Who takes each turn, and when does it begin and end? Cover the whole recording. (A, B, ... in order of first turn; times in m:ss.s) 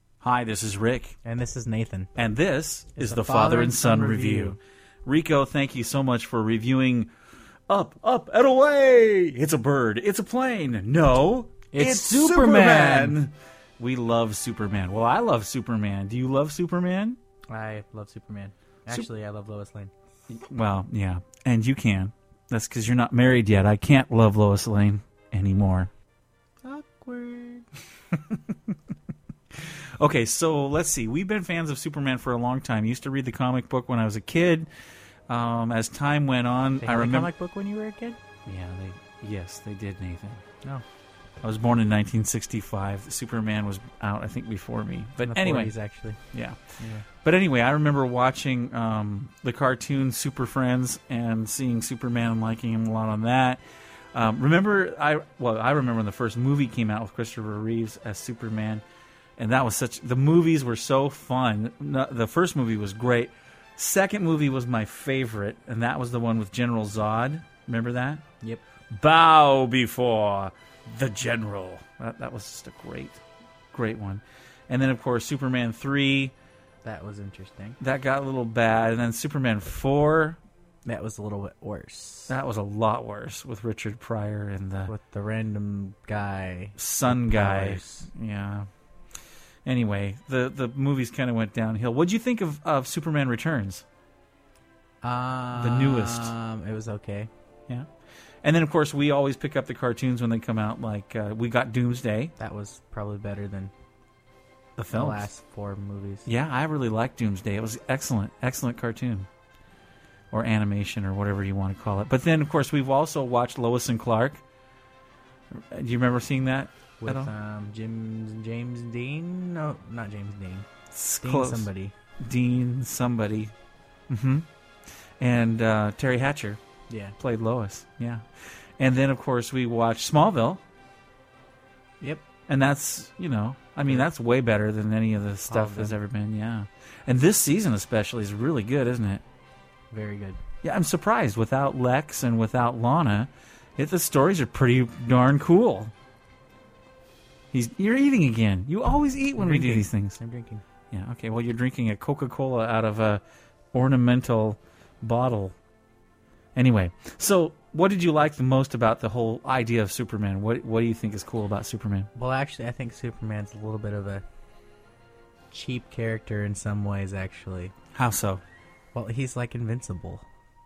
0:00.2-0:01.2 A
0:01.2-0:02.1 B
0:02.2-0:07.1 A
0:02.9-0:04.6 B
0:07.7-0:17.2 A
0:11.7-0:13.2 B
0:17.5-0:19.9 B
0:20.3-0:25.9 A
0:26.6-0:27.7 B
0:30.0-0:34.7 A
0:35.3-0:37.3 A
0:36.8-0:38.2 B
0:38.5-0:40.5 A
0:41.4-0:53.6 A
0:45.2-0:47.0 B
0:54.1-0:58.8 A
0:59.4-1:08.2 A
1:08.9-1:13.2 A
1:13.7-1:16.3 A
1:16.8-1:17.8 B
1:17.8-1:20.4 A
1:20.9-1:22.3 B
1:22.3-1:24.9 A
1:24.9-1:28.1 B
1:26.8-1:28.7 A
1:29.6-1:33.8 A
1:35.0-1:37.3 B
1:35.6-1:36.3 A
1:38.4-1:42.3 A
1:42.4-1:43.7 B
1:44.8-1:45.3 A
1:44.9-1:46.3 B
1:46.2-1:49.3 A
1:50.3-1:54.4 A
1:55.7-1:57.3 A
1:57.0-2:00.7 B
2:00.9-2:03.5 A
2:01.2-2:01.9 B
2:04.1-2:04.5 A
2:05.2-2:06.6 A
2:06.9-2:07.1 B
2:07.2-2:10.6 A
2:12.0-2:12.3 B
2:12.5-2:19.2 A
2:15.5-2:16.0 B
2:19.9-2:20.4 B
2:20.6-2:25.9 A
2:27.5-2:30.2 A
2:29.4-2:30.6 B
2:30.9-2:33.2 A
2:33.7-2:35.6 A
2:36.6-2:42.1 A
2:42.2-2:44.2 B
2:45.5-2:47.7 B
2:47.9-2:48.4 A
2:48.9-2:50.3 B